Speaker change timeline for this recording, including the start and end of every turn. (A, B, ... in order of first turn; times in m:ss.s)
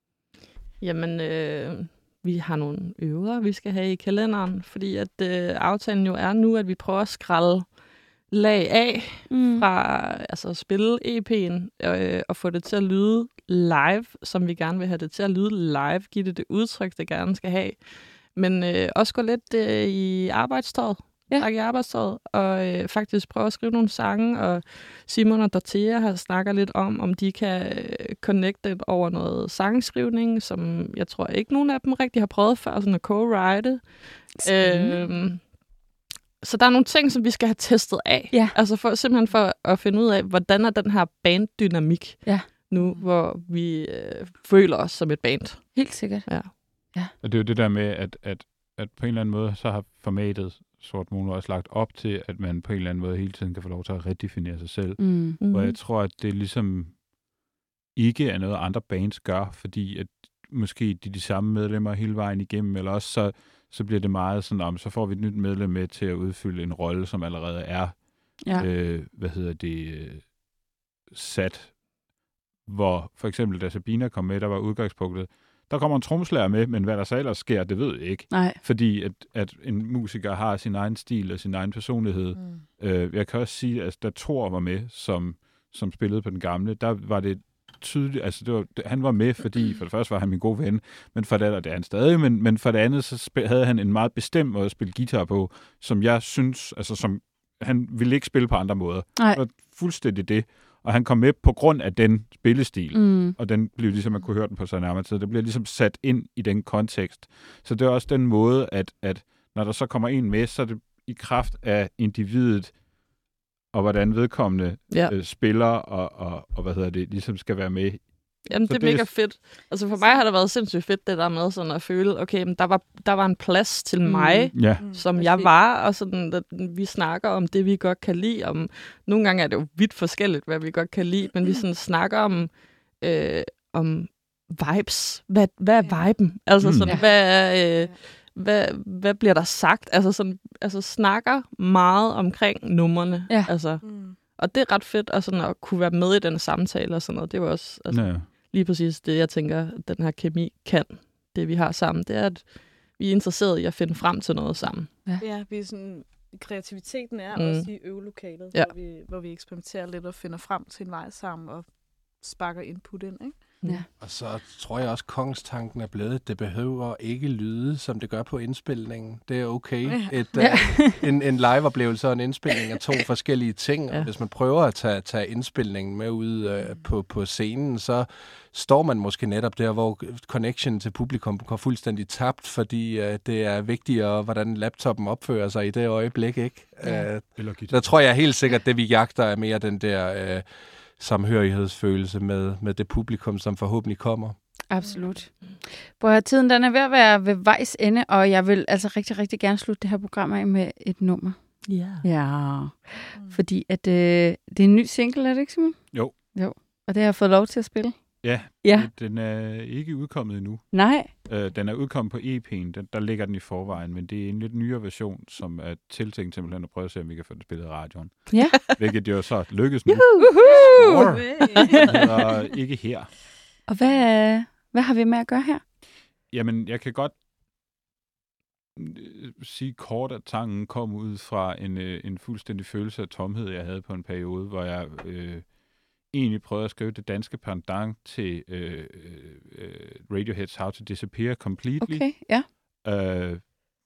0:00.8-0:35.6 A
0:09.3-0:09.7 B
0:34.4-0:35.0 B
0:36.4-0:46.5 A
0:42.8-0:43.0 C
0:45.8-0:47.1 B
0:47.2-0:57.1 D
0:55.0-0:55.4 B
0:55.4-0:55.8 A
0:57.9-1:52.9 D
1:08.4-1:08.7 B
1:18.3-1:18.6 B
1:22.4-1:22.6 C
1:39.2-1:39.4 B
1:42.9-1:43.4 B
1:53.7-1:59.4 D
1:54.9-1:55.2 A
1:58.5-2:35.1 A
2:00.0-2:00.2 C
2:04.1-2:05.0 D
2:04.6-2:05.5 C
2:15.8-2:16.3 C
2:16.6-2:16.9 D
2:16.9-2:18.0 C
2:23.8-2:24.2 C
2:27.9-2:28.3 D
2:35.2-2:43.6 C
2:37.3-2:37.7 A
2:44.0-3:10.4 E
2:49.9-2:50.6 C
2:50.4-2:51.0 B
3:07.4-3:07.8 D
3:11.0-3:14.4 E
3:14.7-3:28.9 B
3:14.8-3:15.2 C
3:21.6-3:22.1 A
3:23.1-3:23.4 C
3:28.2-3:43.2 D
3:30.7-3:31.1 B
3:38.3-3:38.6 B
3:38.3-3:38.7 A
3:40.1-3:40.4 A
3:40.2-3:41.9 B
3:40.4-3:42.2 C
3:43.7-3:45.6 B
3:46.3-3:47.2 D
3:48.8-4:03.6 D
4:01.8-4:02.5 B